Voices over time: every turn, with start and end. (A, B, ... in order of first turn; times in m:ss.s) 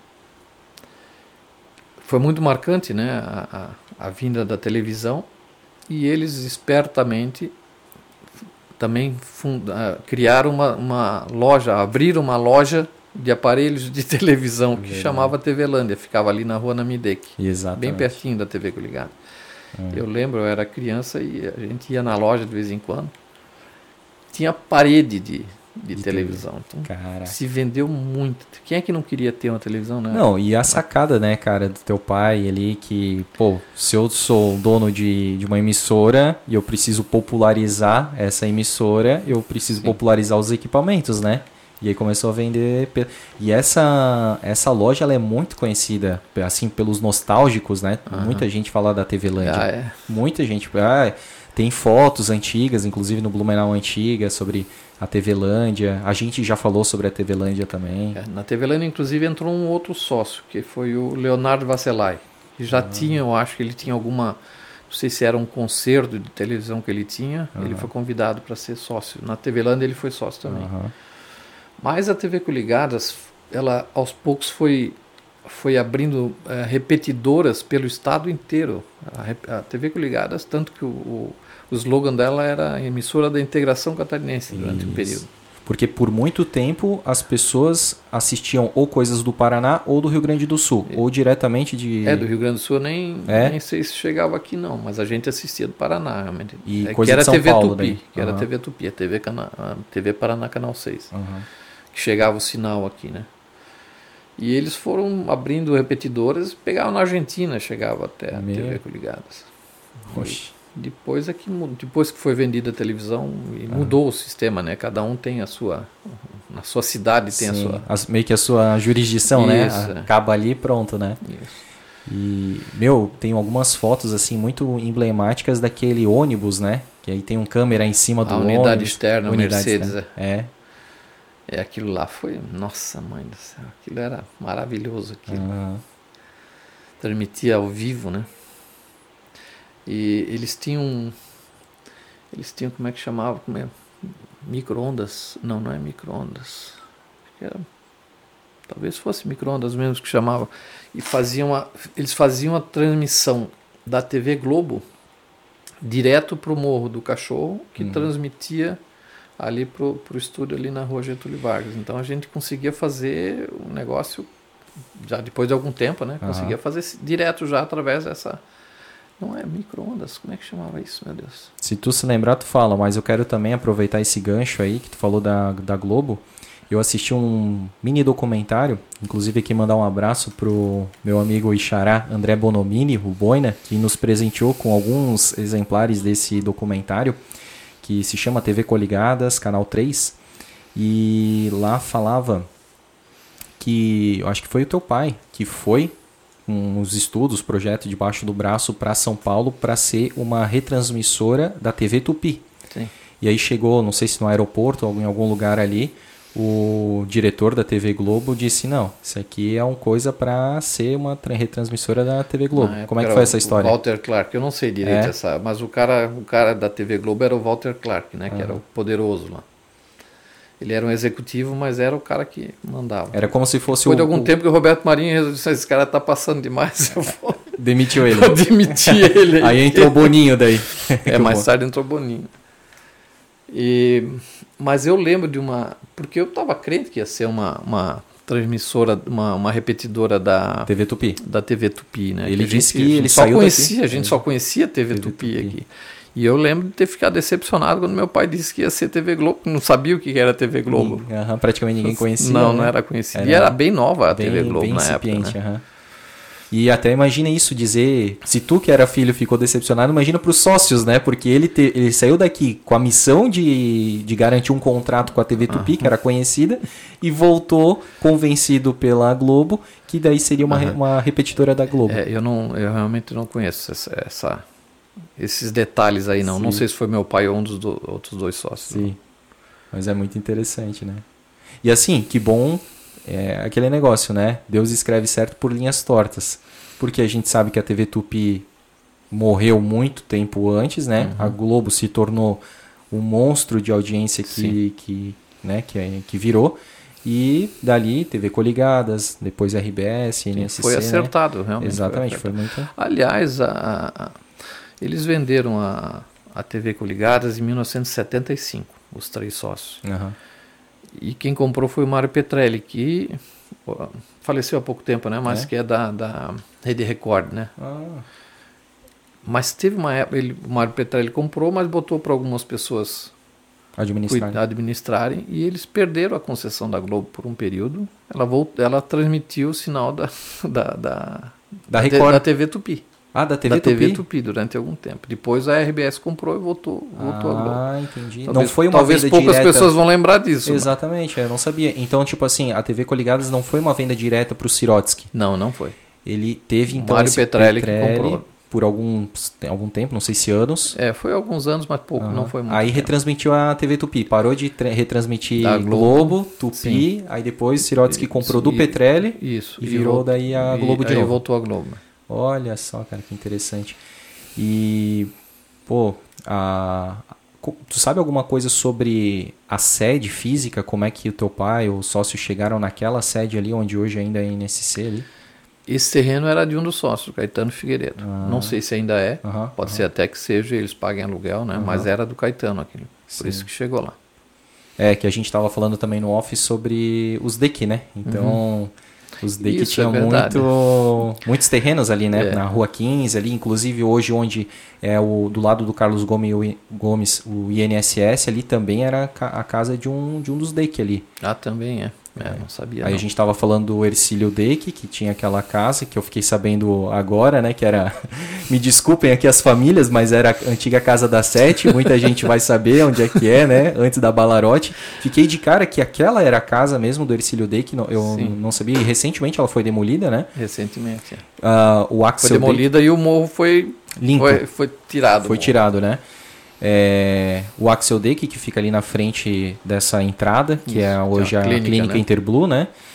0:02.0-0:05.3 A
0:05.9-0:07.5 A
0:08.8-0:19.2 A
0:14.8-0:15.3 B
0:17.4-0:18.2 B
0:19.8-0:20.0 B
0:19.9-0:23.1 A
0:24.3-0:30.8 A
0:26.0-0:27.4 B
0:30.1-0:58.2 B
0:48.1-0:48.4 A
0:49.4-0:50.0 A
0:58.1-1:04.4 A
1:02.7-1:03.2 B
1:04.9-1:10.7 A
1:07.6-1:07.9 B
1:10.5-1:10.9 B
1:11.8-1:25.3 A
1:24.5-1:32.3 B
1:32.0-1:41.1 A
1:33.3-1:33.6 B
1:36.6-1:38.5 B
1:41.1-1:41.5 B
1:41.9-1:43.3 A
1:44.4-1:49.5 A
1:48.3-1:48.8 B
1:50.0-1:57.9 A
1:50.1-1:50.5 B
1:53.7-1:54.0 B
1:57.3-2:01.2 B
1:59.3-2:00.1 A
2:01.2-2:01.6 A
2:02.1-2:10.5 B
2:08.2-2:10.1 A
2:11.5-2:15.5 A
2:15.3-2:15.8 B
2:17.0-2:18.3 A
2:19.9-2:21.2 A
2:22.3-2:26.8 A
2:27.4-2:27.6 A
2:28.7-2:34.8 A
2:35.8-2:38.8 A
2:37.8-2:38.1 B
2:39.4-2:44.3 A
2:45.0-2:48.4 A
2:46.2-2:46.6 B
2:49.2-2:51.5 A
2:51.6-3:07.2 B
3:07.8-3:10.2 B
3:10.8-3:12.5 B
3:13.6-3:16.0 B
3:16.5-3:22.4 B
3:23.2-3:33.8 B
3:32.5-3:39.4 A
3:34.8-3:35.1 B
3:38.3-3:38.6 B
3:40.6-3:50.2 A
3:43.1-3:44.3 B
3:47.6-3:51.5 B
3:51.0-3:52.3 A
3:53.5-4:11.1 A
4:00.7-4:01.2 B
4:02.2-4:04.2 B
4:04.9-4:05.6 B
4:10.7-4:13.6 B
4:11.8-4:15.4 A
4:14.1-4:15.6 B
4:16.5-4:32.0 B
4:25.5-4:25.9 A
4:30.5-4:30.8 A
4:31.9-4:34.4 A
4:35.2-4:38.9 A
4:36.2-4:36.6 B
4:38.7-4:39.0 B
4:39.7-4:41.0 B
4:41.6-4:48.5 B
4:49.1-5:02.7 B
4:51.0-4:51.4 A
4:54.3-4:54.6 A
5:00.3-5:04.2 A
5:04.8-5:09.8 A
5:09.8-5:10.2 B
5:10.9-5:17.6 A
5:17.6-5:18.0 B
5:19.2-5:23.1 A
5:23.8-5:24.4 B
5:24.1-5:32.8 A
5:31.7-5:32.2 B
5:33.1-5:34.0 B
5:33.4-5:37.6 A
5:37.0-5:39.8 B
5:38.3-5:40.7 A
5:40.4-5:45.1 B
5:45.1-5:45.8 A
5:46.0-5:50.8 B
5:46.7-5:48.3 A
5:50.7-5:52.9 A
5:52.0-6:01.2 B
5:55.4-5:56.9 A
5:57.9-6:01.8 A
6:02.1-6:03.8 B
6:04.4-6:05.1 B
6:05.7-6:15.1 B
6:15.7-6:24.0 A
6:18.0-6:18.6 B
6:19.2-6:19.8 B
6:21.6-6:21.9 B
6:23.2-6:23.5 B
6:24.8-6:41.1 B
6:28.0-6:28.4 A
6:29.4-6:30.5 A
6:32.1-6:32.4 A
6:41.2-6:43.0 A
6:42.2-7:00.3 B
6:58.0-6:58.4 A
7:00.4-7:01.2 A
7:01.4-7:02.7 B
7:02.2-7:05.6 A
7:04.0-7:04.4 B
7:05.2-7:06.0 B
7:06.6-7:12.7 B
7:10.6-7:12.0 A